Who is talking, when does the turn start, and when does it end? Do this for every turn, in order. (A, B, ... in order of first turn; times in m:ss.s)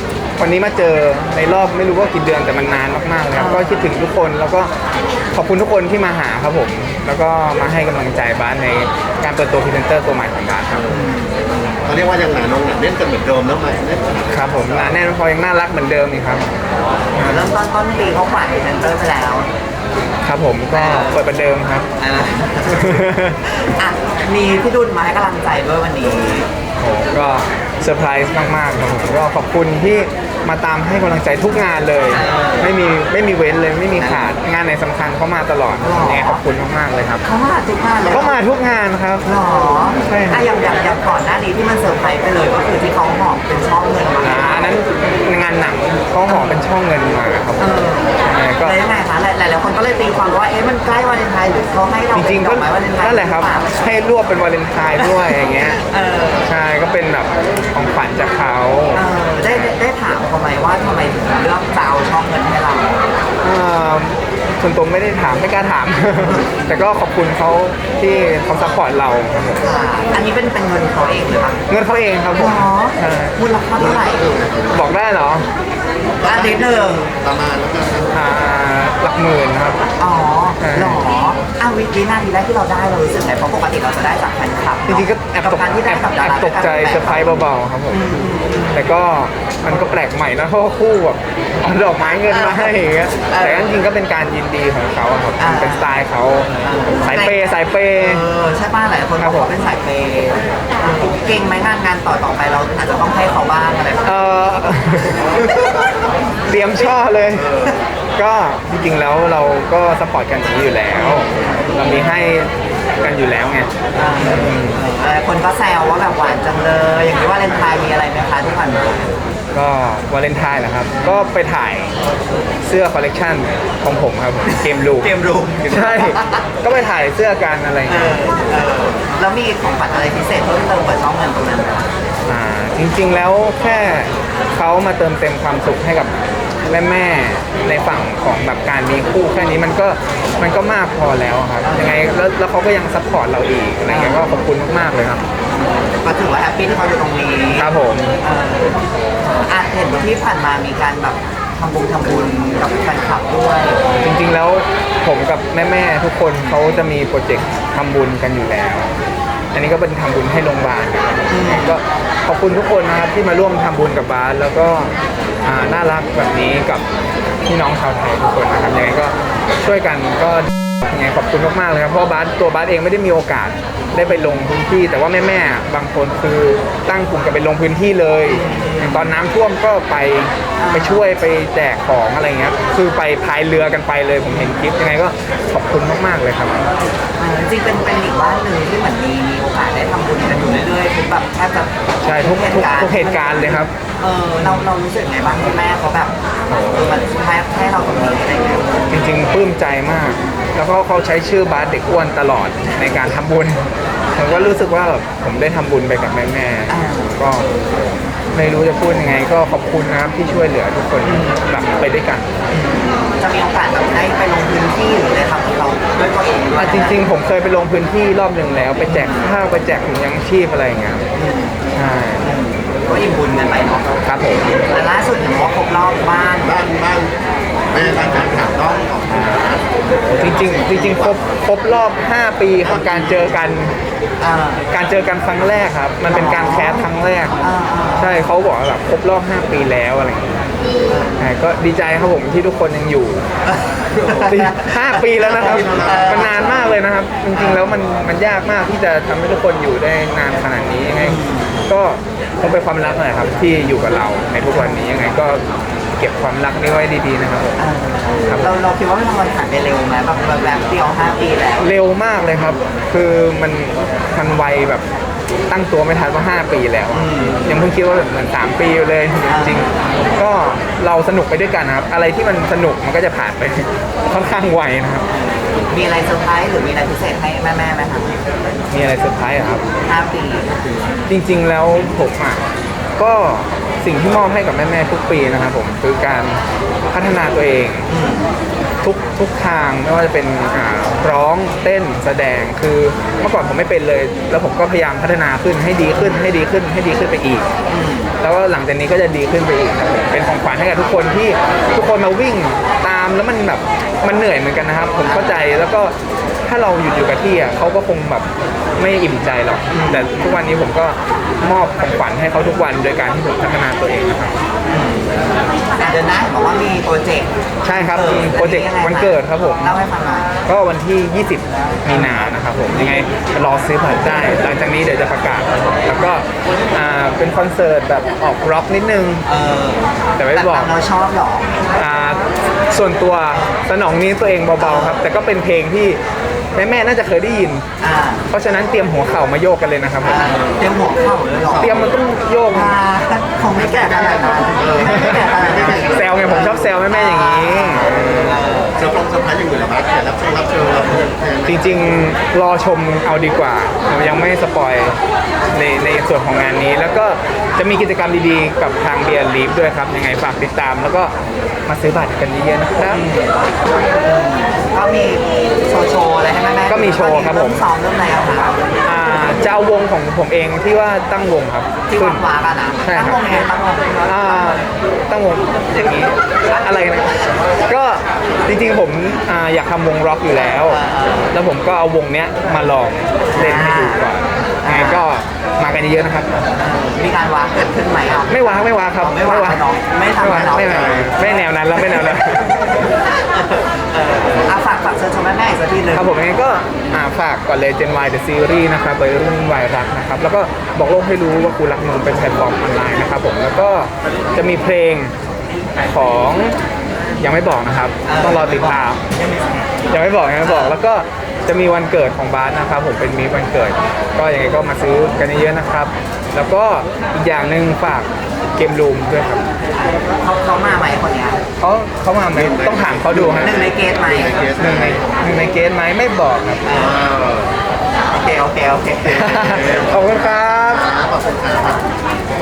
0:00.4-0:04.7 A
0:03.3-0:03.9 B
0:05.3-0:10.9 A
0:10.9-0:11.7 B
0:11.8-0:15.0 C
0:14.3-0:16.5 A
0:17.1-0:17.5 A
0:17.2-0:19.5 B
0:20.2-0:21.9 A
0:20.7-0:21.2 B
0:22.0-0:26.5 B
0:22.7-0:23.6 A
0:26.8-0:37.2 A
0:32.1-0:32.7 B
0:34.0-0:34.4 B
0:35.8-0:36.4 B
0:37.2-0:38.4 B
0:38.1-0:39.3 A
0:39.2-0:44.8 B
0:39.9-0:40.5 A
0:44.2-0:47.7 A
0:46.3-0:46.7 B
0:47.6-0:53.7 B
0:48.2-0:48.8 A
0:52.1-0:55.8 A
0:55.0-0:56.5 B
0:56.4-0:59.7 A
0:58.9-1:03.0 B
1:03.4-1:09.7 A
1:06.2-1:06.7 B
1:09.6-1:11.6 B
1:11.7-1:13.4 A
1:12.3-1:14.3 B
1:13.8-1:14.9 C
1:14.7-1:15.5 A
1:16.2-1:18.1 C
1:16.2-1:17.1 B
1:18.1-1:19.8 A
1:20.0-1:28.9 B
1:20.6-1:21.0 A
1:24.9-1:38.3 A
1:32.1-1:33.7 B
1:35.4-1:35.9 B
1:36.6-1:44.2 B
1:39.2-1:39.5 A
1:44.0-1:45.5 A
1:45.4-1:45.8 B
1:46.5-1:47.6 A
1:48.2-1:54.8 A
1:50.9-1:52.0 B
1:53.9-1:59.1 B
1:59.5-2:02.0 A
2:01.0-2:01.3 B
2:02.6-2:05.1 A
2:04.5-2:06.5 B
2:05.6-2:08.2 A
2:07.9-2:11.9 B
2:12.3-2:25.2 A
2:21.6-2:22.0 B
2:23.9-2:24.5 B
2:25.5-2:33.9 B
2:27.6-2:28.2 A
2:34.0-2:38.9 A
2:39.5-2:46.8 A
2:41.3-2:41.8 B
2:47.5-3:06.6 A
2:58.3-2:59.2 B
3:00.6-3:01.1 B
3:04.3-3:04.6 B
3:07.2-3:16.2 B
3:12.0-3:13.7 A
3:14.4-3:14.7 A
3:16.5-3:16.9 A
3:16.7-3:19.1 B
3:18.9-3:27.5 A
3:24.2-3:24.5 B
3:26.7-3:27.1 B
3:28.3-3:32.3 A
3:31.0-3:31.4 B
3:32.5-3:37.0 B
3:36.6-3:41.0 A
3:38.9-3:39.3 B
3:41.1-3:41.6 B
3:41.7-3:42.3 A
3:42.2-3:46.6 B
3:44.0-3:44.5 A
3:46.4-3:47.2 C
3:47.7-3:51.3 C
3:49.1-3:49.4 A
3:50.1-3:53.8 A
3:52.8-3:53.2 C
3:54.2-3:54.6 B
3:54.7-3:57.4 A
3:56.0-3:56.9 B
3:57.4-3:58.3 B
3:58.0-4:00.5 A
4:00.9-4:01.3 B
4:01.2-4:03.3 A
4:03.4-4:06.7 B
4:04.2-4:15.4 A
4:05.4-4:06.5 C
4:07.3-4:07.8 B
4:11.0-4:11.6 B
4:14.5-4:14.9 B
4:16.0-4:17.6 A
4:17.6-4:21.7 B
4:18.3-4:18.6 A
4:21.6-4:24.8 A
4:22.3-4:22.7 B
4:25.5-4:35.1 A
4:26.9-4:27.6 B
4:29.3-4:29.8 B
4:35.1-4:38.2 B
4:38.7-4:39.6 A
4:39.8-4:40.6 B
4:41.1-4:42.4 A
4:43.0-4:47.9 A
4:47.9-4:48.3 B
4:48.8-4:57.5 A
4:57.7-4:58.1 B
4:58.2-5:14.4 A
5:05.1-5:05.4 B
5:09.7-5:10.4 B
5:14.7-5:20.3 B
5:17.6-5:19.8 A
5:20.5-5:29.3 A
5:21.9-5:22.2 B
5:29.3-5:31.6 B
5:30.2-5:30.7 A
5:31.7-5:36.0 A
5:34.6-5:35.0 B
5:36.6-5:37.6 A
5:37.8-5:38.3 B
5:38.3-5:40.3 A
5:40.0-5:41.9 B
5:40.3-5:40.6 C
5:41.5-5:41.8 C
5:41.6-5:42.8 A
5:42.5-5:48.8 B
5:44.6-5:46.5 C
5:44.9-5:48.4 A
5:48.8-5:52.0 C
5:51.5-5:55.0 A
5:55.5-6:01.1 A
6:01.7-6:03.1 A
6:02.8-6:03.3 B
6:04.0-6:08.6 B
6:06.7-6:07.6 A
6:08.8-6:12.2 A
6:11.9-6:14.6 B
6:12.8-6:13.4 A
6:14.0-6:20.8 A
6:20.3-6:21.3 B
6:21.3-6:26.3 A
6:23.3-6:24.1 B
6:24.6-6:25.1 B
6:26.6-6:31.4 B
6:28.3-6:29.6 A
6:30.2-6:32.6 A
6:32.9-6:36.2 B
6:35.9-6:45.1 A
6:45.8-6:46.6 A
6:47.2-6:49.0 A
6:48.0-6:49.4 B
6:49.9-6:59.5 A
6:50.4-6:50.8 B
6:59.8-7:01.4 B
7:01.6-7:03.6 A
7:02.3-7:05.0 C
7:03.3-7:04.4 B
7:04.6-7:06.6 A
7:06.6-7:07.0 B
7:06.8-7:07.5 C
7:08.0-7:09.6 B
7:09.1-7:10.9 A
7:09.4-7:11.8 C